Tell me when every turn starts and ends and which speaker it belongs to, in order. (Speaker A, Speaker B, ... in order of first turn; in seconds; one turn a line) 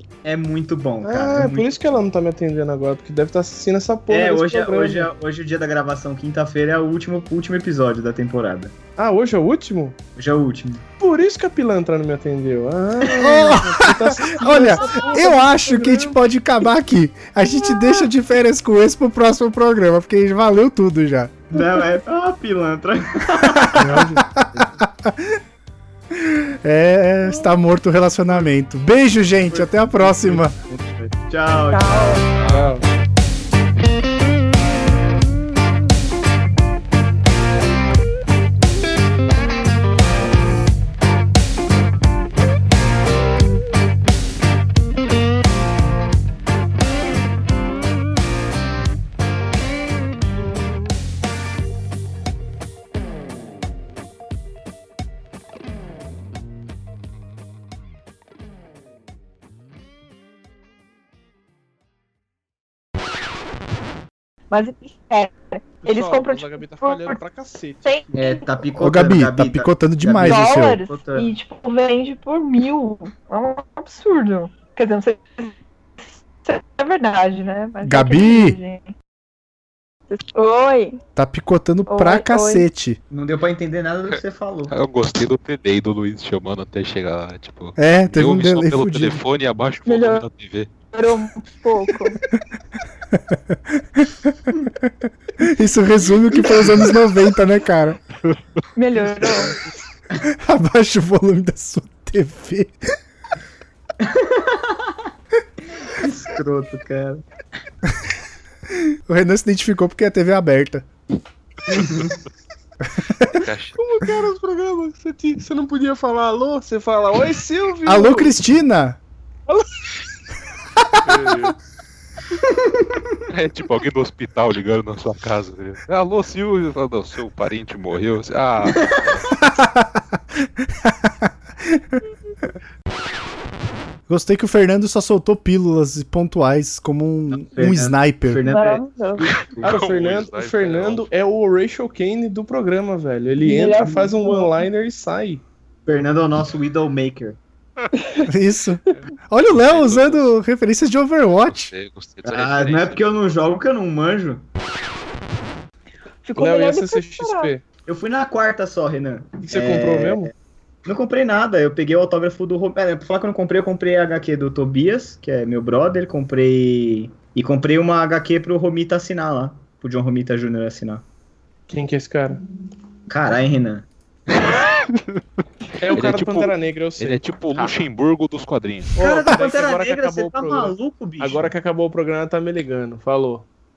Speaker A: 0.2-2.0
Speaker B: 1.0-5.1
Speaker A: 4.1-8.8
Speaker B: 9.0-10.0
Speaker A: 10.2-10.8
Speaker B: 11.0-16.1
Speaker A: 13.0-13.4
Speaker C: 13.2-21.3
Speaker D: 14.8-15.4
Speaker A: 21.5-24.0
Speaker C: 23.6-25.4
Speaker B: 23.8-24.2
Speaker C: 26.1-30.6
Speaker A: 29.4-32.3
Speaker D: 31.7-32.3
Speaker E: 32.4-32.8
Speaker B: 32.5-32.9
Speaker D: 64.5-67.2
Speaker B: 65.8-68.1
Speaker D: 67.8-68.4
Speaker A: 68.2-71.3
Speaker C: 68.8-70.8
Speaker D: 70.2-78.9
Speaker C: 77.8-78.6
Speaker D: 80.1-81.0
Speaker C: 81.2-83.0
Speaker D: 81.9-82.7
Speaker A: 83.1-84.7
Speaker E: 84.1-90.7
Speaker C: 87.8-89.2
Speaker D: 89.9-90.2
Speaker D: 90.9-92.2
Speaker C: 93.1-98.0
Speaker D: 98.8-99.5
Speaker A: 99.2-99.6
Speaker C: 100.2-102.7
Speaker A: 104.0-105.1
Speaker A: 105.9-107.2
Speaker C: 108.7-110.9
Speaker E: 111.7-112.1
Speaker C: 113.0-113.4
Speaker E: 113.4-113.8
Speaker B: 113.8-118.4
Speaker C: 117.9-119.0
Speaker B: 121.0-121.5
Speaker A: 122.4-123.0
Speaker E: 123.3-129.3
Speaker A: 128.8-129.2
Speaker C: 129.4-131.8
Speaker C: 134.1-138.4
Speaker A: 137.3-139.7
Speaker D: 138.4-139.4
Speaker E: 139.2-141.1
Speaker B: 139.6-145.4
Speaker D: 143.4-144.7
Speaker A: 145.9-147.4
Speaker D: 147.9-148.3
Speaker C: 148.3-151.7
Speaker E: 148.9-150.3
Speaker E: 151.4-153.0
Speaker A: 152.2-154.4
Speaker D: 156.2-157.5
Speaker B: 156.4-157.7
Speaker A: 157.9-160.3
Speaker B: 159.4-160.3
Speaker A: 160.8-171.0
Speaker B: 171.7-172.4
Speaker A: 173.1-173.9
Speaker E: 174.9-175.2
Speaker B: 175.8-177.7
Speaker E: 175.9-178.9
Speaker B: 179.0-183.4
Speaker A: 179.0-181.5